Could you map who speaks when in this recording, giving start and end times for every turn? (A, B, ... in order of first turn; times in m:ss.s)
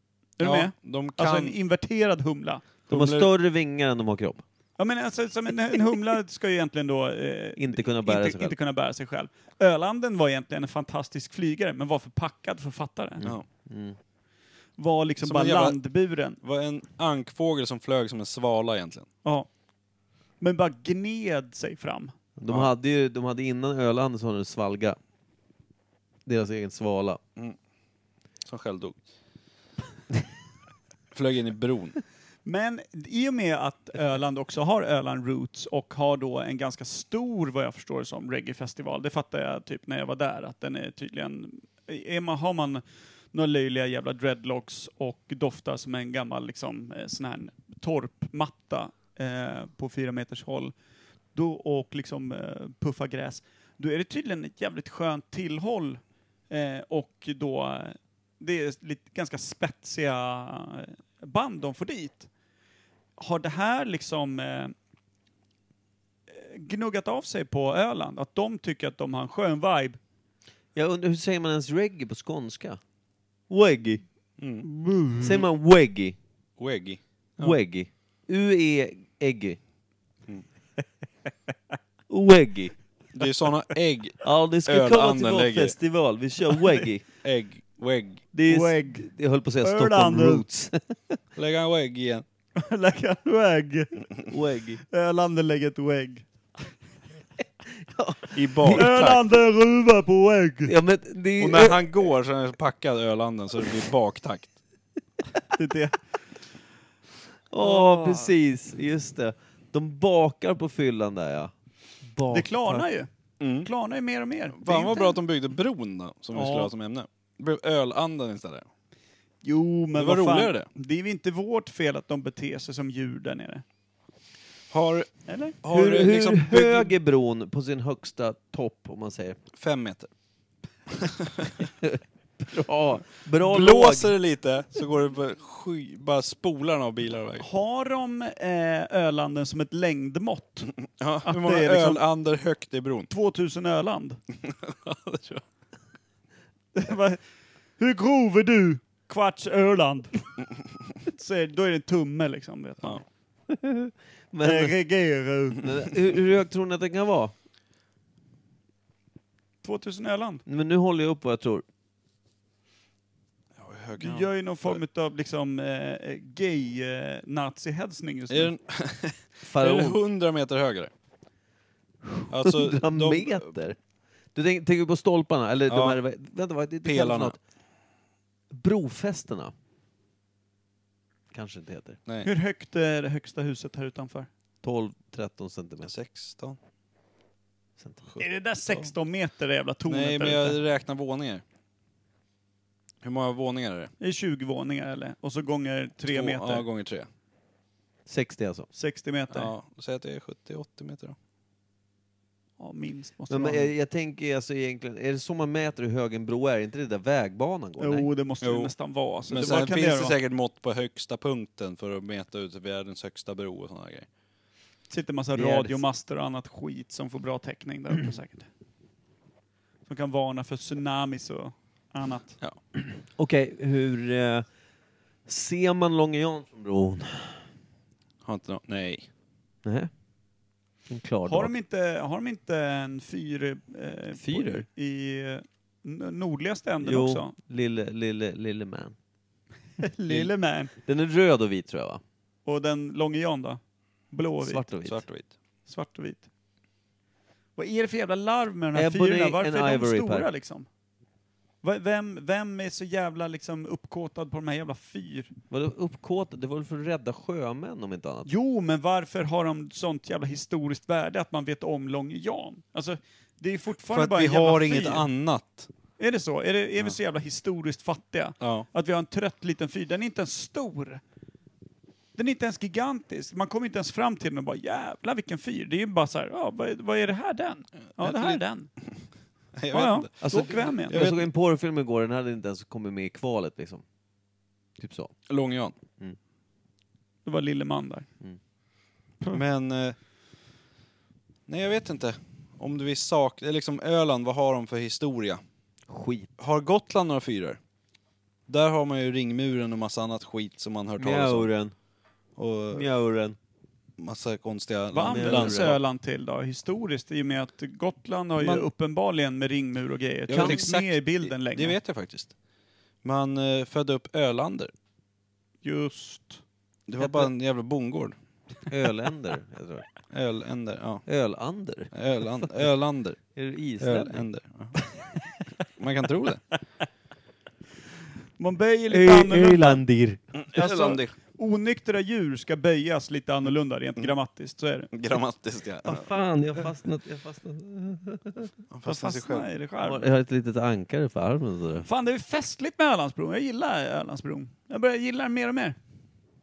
0:00.4-0:02.7 A
0:00.4-0:01.6 B
0:02.9-0:03.3 B
0:02.9-0:04.4 C
0:04.8-0:13.2 A
0:07.6-0:08.6 C
0:13.2-0:14.0 C
0:14.8-0:16.4 A
0:15.2-0:15.8 B
0:16.4-0:19.1 B
0:19.2-0:19.5 A
0:20.4-0:22.1 A
0:22.4-0:25.0 C
0:26.3-0:27.2 C
0:28.5-0:29.0 B
0:31.1-0:32.0 B
0:32.4-0:50.7 A
0:51.3-1:02.3 A
1:03.2-1:04.7 A
1:06.3-1:10.0 A
1:10.8-1:12.8 C
1:13.5-1:14.0 C
1:14.4-1:14.7 B
1:14.6-1:15.4 A
1:15.2-1:16.2 C
1:16.6-1:17.6 B
1:17.4-1:19.6 C
1:22.1-1:22.7 C
1:23.1-1:25.8 B
1:24.2-1:27.0 C
1:27.2-1:28.2 B
1:28.3-1:31.2 C
1:28.5-1:29.1 A
1:29.6-1:30.4 A
1:31.4-1:32.2 B
1:32.6-1:34.1 A
1:34.3-1:34.8 C
1:34.9-1:36.3 A
1:37.8-1:38.9 C
1:38.3-1:39.2 B
1:38.7-1:40.7 A
1:40.7-1:42.0 C
1:41.4-1:44.5 B
1:45.6-1:46.0 A
1:47.5-1:51.5 C
1:47.6-1:48.3 A
1:52.0-1:52.9 C
1:52.3-1:53.1 A
1:53.4-1:53.7 B
1:53.6-1:55.1 A
1:54.6-1:58.7 B
1:56.3-1:56.7 A
1:59.4-2:03.6 A
2:00.0-2:00.7 B
2:04.7-2:06.9 B
2:05.3-2:05.6 A
2:05.6-2:09.4 C
2:09.6-2:10.1 B
2:10.9-2:11.6 B
2:11.6-2:14.2 C
2:13.4-2:17.5 B
2:17.4-2:20.7 A
2:21.0-2:23.1 B
2:21.2-2:22.0 A
2:23.1-2:24.2 A
2:24.4-2:25.4 B
2:26.8-2:27.2 A
2:27.8-2:30.3 A
2:31.1-2:33.0 A
2:33.5-2:34.8 C
2:34.4-2:35.7 A
2:35.6-2:37.3 C
2:39.6-2:40.4 A
2:40.5-2:41.6 C
2:43.6-2:44.8 B
2:44.0-2:48.5 A
2:48.3-2:50.9 B
2:49.4-2:50.0 C
2:52.0-2:53.8 C
2:52.3-2:53.5 B
2:54.4-2:57.4 C
2:55.7-2:56.0 B
2:56.8-2:57.4 B
2:58.5-2:59.5 C
3:01.3-3:02.0 C
3:02.2-3:04.3 A
3:04.6-3:05.9 C
3:05.9-3:06.6 B
3:07.8-3:08.0 C
3:08.1-3:08.9 B
3:08.2-3:10.6 A
3:09.9-3:11.4 B
3:13.0-3:13.9 B
3:14.0-3:16.6 A
3:16.1-3:17.1 B
3:18.1-3:18.7 C
3:18.7-3:19.5 A
3:19.3-3:21.2 B
3:22.6-3:23.7 A
3:23.3-3:28.1 C
3:27.8-3:30.2 A
3:28.4-3:28.7 B
3:29.3-3:34.1 B
3:34.9-3:38.5 A
3:35.3-3:35.8 C
3:39.9-3:42.4 A
3:43.2-3:44.5 C
3:45.3-3:47.4 C
3:48.2-3:49.1 B
3:49.6-3:49.9 C
3:50.9-3:51.5 C
3:51.2-3:57.3 A
3:54.2-3:54.7 C
3:56.8-3:59.0 C
3:59.8-4:00.7 A
4:00.8-4:02.0 C
4:02.5-4:03.6 A
4:04.1-4:04.6 A
4:04.4-4:05.0 C
4:04.9-4:05.3 B
4:05.7-4:06.3 A
4:07.6-4:10.7 A
4:08.7-4:10.3 C
4:11.6-4:15.3 A
4:15.5-4:18.3 C
4:18.3-4:25.1 A
4:23.9-4:25.7 B
4:26.0-4:31.0 A
4:28.4-4:28.7 B
4:32.2-4:38.7 A
4:37.9-4:38.9 B
4:39.6-4:41.3 B
4:39.7-4:41.0 A
4:40.2-4:43.8 C
4:44.8-4:45.1 C
4:45.3-4:45.7 B
4:47.2-4:48.1 A
4:49.3-4:50.0 B
4:51.5-4:55.4 B
4:55.9-4:56.3 C
4:56.4-4:57.6 B
4:58.5-5:01.5 B
5:01.0-5:01.7 C
5:02.4-5:02.9 B
5:02.7-5:03.4 C
5:04.0-5:05.8 B
5:04.9-5:11.8 A
5:05.0-5:05.8 C
5:10.3-5:12.3 B
5:10.3-5:10.6 C
5:13.0-5:14.7 B
5:15.6-5:16.4 A
5:16.9-5:18.2 B
5:18.7-5:19.9 C
5:20.1-5:21.0 B
5:21.1-5:21.9 C
5:21.9-5:23.2 B
5:23.4-5:24.3 C
5:23.8-5:24.8 B
5:25.8-5:26.4 B
5:28.4-5:29.8 A
5:28.9-5:30.2 C
5:30.4-5:31.1 B
5:30.5-5:34.9 A
5:34.9-5:36.1 B
5:35.8-5:38.5 C
5:38.7-5:39.4 B
5:38.8-5:40.1 A
5:39.8-5:41.9 C
5:41.8-5:45.8 A